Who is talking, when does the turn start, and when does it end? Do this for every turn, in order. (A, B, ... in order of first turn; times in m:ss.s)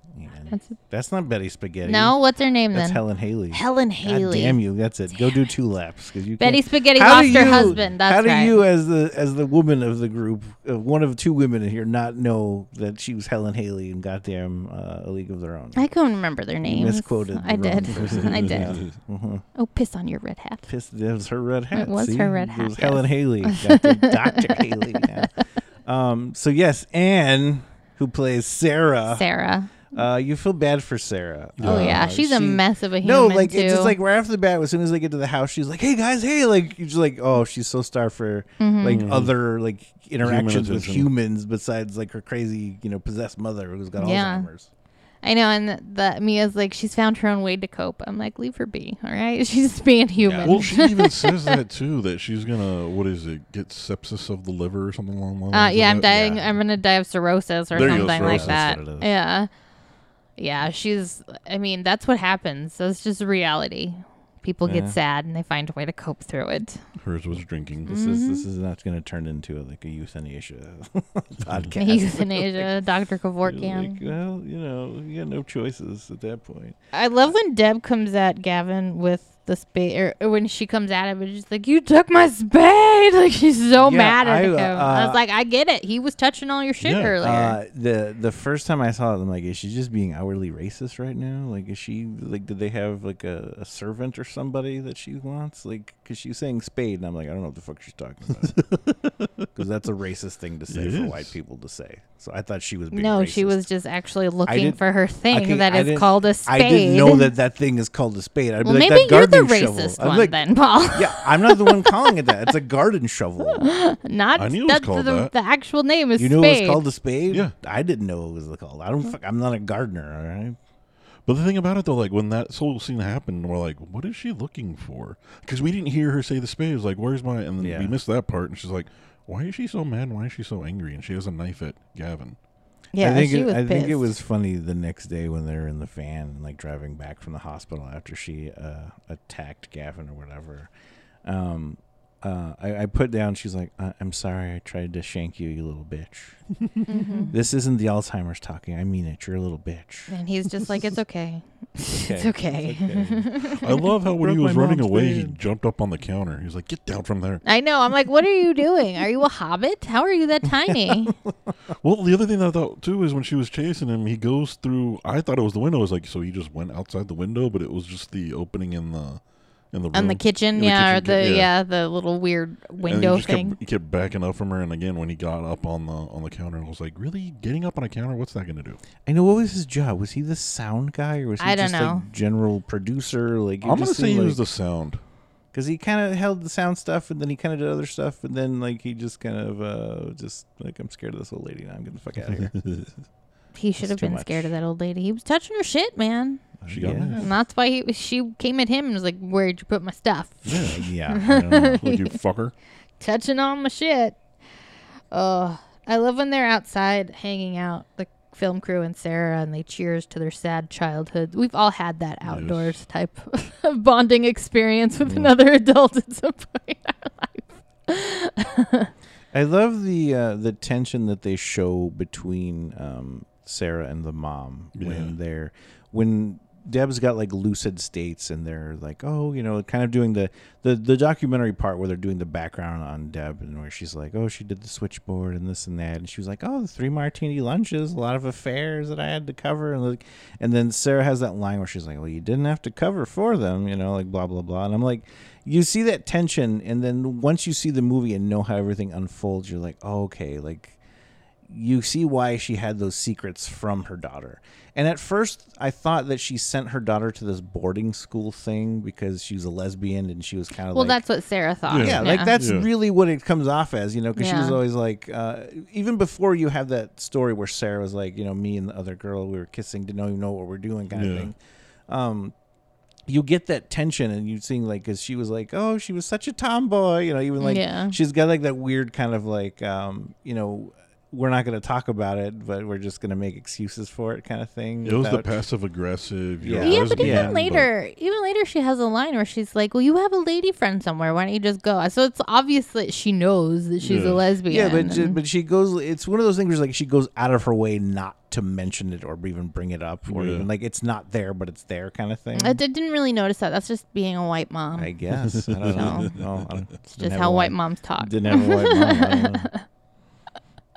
0:00.1-0:02.2 A
0:01.8-0:03.0 B
0:02.7-0:15.8 A
0:03.5-0:04.6 B
0:06.4-0:08.6 B
0:07.1-0:07.8 C
0:15.8-0:18.9 B
0:16.6-0:19.4 A
0:18.1-0:18.8 C
0:19.5-0:20.7 B
0:20.7-0:29.2 A
0:21.7-0:25.2 B
0:29.1-0:29.9 B
0:29.9-0:44.7 A
0:31.6-0:32.0 C
0:31.6-0:34.0 B
0:38.6-0:39.0 B
0:38.9-0:39.3 C
0:40.2-0:41.1 C
0:44.0-0:44.5 B
0:45.2-0:51.6 B
0:50.2-0:50.6 A
0:50.4-0:56.3 C
0:55.5-0:59.5 B
0:56.1-0:56.5 A
0:57.7-0:58.7 C
0:57.7-0:59.1 A
1:00.4-1:06.8 B
1:04.6-1:05.0 A
1:07.0-1:07.9 C
1:07.9-1:08.4 B
1:07.9-1:12.7 A
1:11.8-1:14.0 B
1:13.5-1:16.8 A
1:16.9-1:27.6 B
1:23.8-1:25.2 A
1:26.8-1:27.2 C
1:27.2-1:38.6 A
1:38.4-1:39.5 C
1:39.5-1:43.6 A
1:40.7-1:41.3 C
1:42.9-1:47.3 B
1:44.5-1:44.8 A
1:45.3-1:50.4 A
1:48.6-1:52.1 B
1:50.9-1:53.7 A
1:53.6-1:56.8 B
1:54.4-1:55.3 C
1:56.2-2:00.6 A
2:01.2-2:12.4 C
2:07.6-2:07.9 A
2:12.9-2:14.1 B
2:13.0-2:20.7 A
2:21.2-2:26.4 A
2:26.9-2:27.3 B
2:27.3-2:30.1 A
2:30.1-2:33.7 B
2:31.9-2:35.4 A
2:33.6-2:37.4 C
2:37.4-2:41.1 B
2:41.8-2:51.5 C
2:49.9-2:53.6 B
2:52.8-2:58.8 C
2:59.0-3:04.4 A
3:01.4-3:02.0 B
3:03.6-3:05.0 C
3:05.5-3:12.5 A
3:12.3-3:12.9 C
3:13.5-3:22.1 B
3:13.8-3:14.5 A
3:16.6-3:17.3 A
3:16.7-3:17.3 C
3:20.4-3:22.5 C
3:20.7-3:21.3 A
3:23.0-3:24.2 B
3:25.1-3:38.9 B
3:32.2-3:32.8 C
3:35.0-3:35.3 A
3:39.3-4:10.8 A
3:44.7-3:45.1 C
4:11.5-4:21.0 A
4:20.7-4:22.3 B
4:21.7-4:22.7 C
4:21.8-4:31.4 A
4:24.2-4:24.6 B
4:30.9-4:31.3 C
4:31.9-4:32.3 A
4:33.1-4:45.3 A
4:37.4-4:37.9 B
4:44.8-4:47.7 C
4:46.4-4:47.4 A
4:46.6-4:55.2 B
4:53.8-4:54.2 C
4:54.5-5:02.6 A
5:00.1-5:00.5 C
5:02.4-5:04.9 B
5:04.8-5:09.5 A
5:05.3-5:06.5 C
5:05.7-5:06.1 B
5:06.9-5:09.6 B